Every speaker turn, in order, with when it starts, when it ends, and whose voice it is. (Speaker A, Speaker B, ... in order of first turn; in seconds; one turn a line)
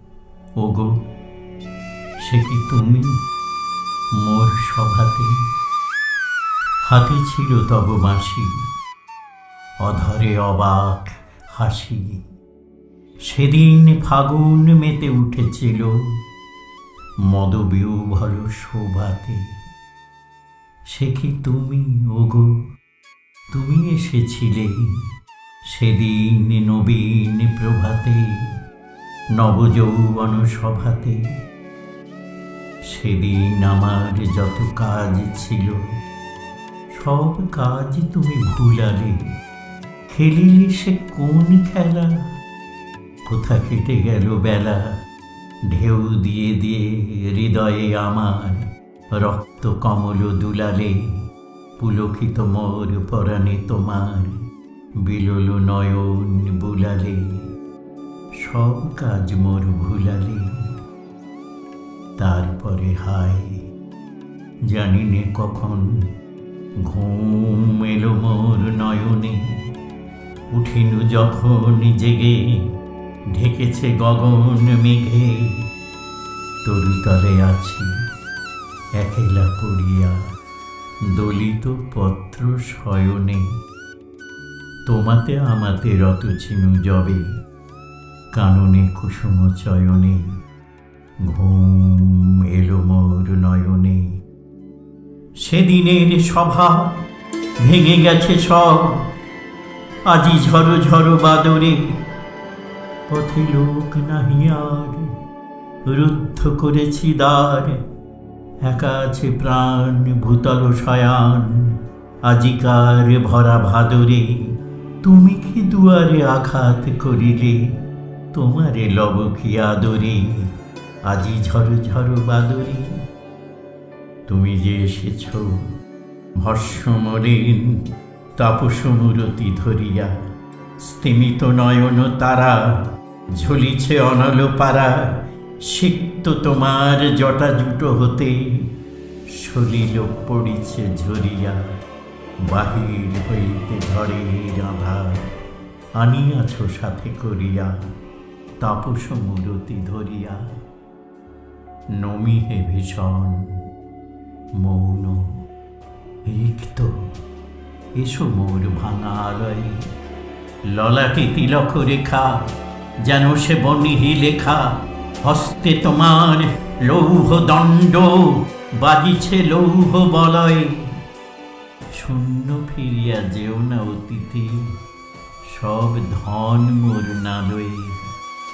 Speaker A: 0.6-1.0
Speaker A: 2.2-3.2
Speaker A: 4.2-5.5
Speaker A: 6.8-8.7
Speaker A: 9.8-12.2
Speaker A: 13.2-16.2
Speaker A: 17.3-19.5
Speaker A: 20.9-22.6
Speaker A: 23.5-25.0
Speaker A: 25.7-28.5
Speaker A: 29.4-31.3
Speaker A: 32.9-35.8
Speaker A: 36.9-39.2
Speaker A: 40.1-42.2
Speaker A: 43.3-44.9
Speaker A: 45.7-51.2
Speaker A: 51.8-54.5
Speaker A: 55.0-57.5
Speaker A: 58.4-60.8
Speaker A: 62.2-63.6
Speaker A: 64.7-66.1
Speaker A: 66.8-69.7
Speaker A: 70.5-72.8
Speaker A: 73.3-75.7
Speaker A: 76.6-77.9
Speaker A: 79.0-80.2
Speaker A: 81.1-83.5
Speaker A: 84.9-87.3
Speaker A: 88.3-90.4
Speaker A: 91.2-94.2
Speaker A: 95.4-97.0
Speaker A: 97.6-99.1
Speaker A: 100.1-102.0
Speaker A: 103.1-105.1
Speaker A: 105.9-107.8
Speaker A: 108.6-114.5
Speaker A: 115.0-117.7
Speaker A: 118.3-120.5
Speaker A: 121.0-123.0
Speaker A: 124.3-125.7
Speaker A: 126.4-127.8
Speaker A: 128.4-130.2
Speaker A: 130.8-138.7
Speaker A: 139.3-141.7
Speaker A: 142.4-145.3
Speaker A: 146.0-147.8
Speaker A: 148.6-150.5
Speaker A: 151.9-153.6
Speaker A: 154.6-155.4
Speaker A: 156.2-157.1
Speaker A: 158.0-159.8
Speaker A: 160.7-162.5
Speaker A: 163.0-170.9
Speaker A: 171.9-174.7
Speaker A: 175.5-178.1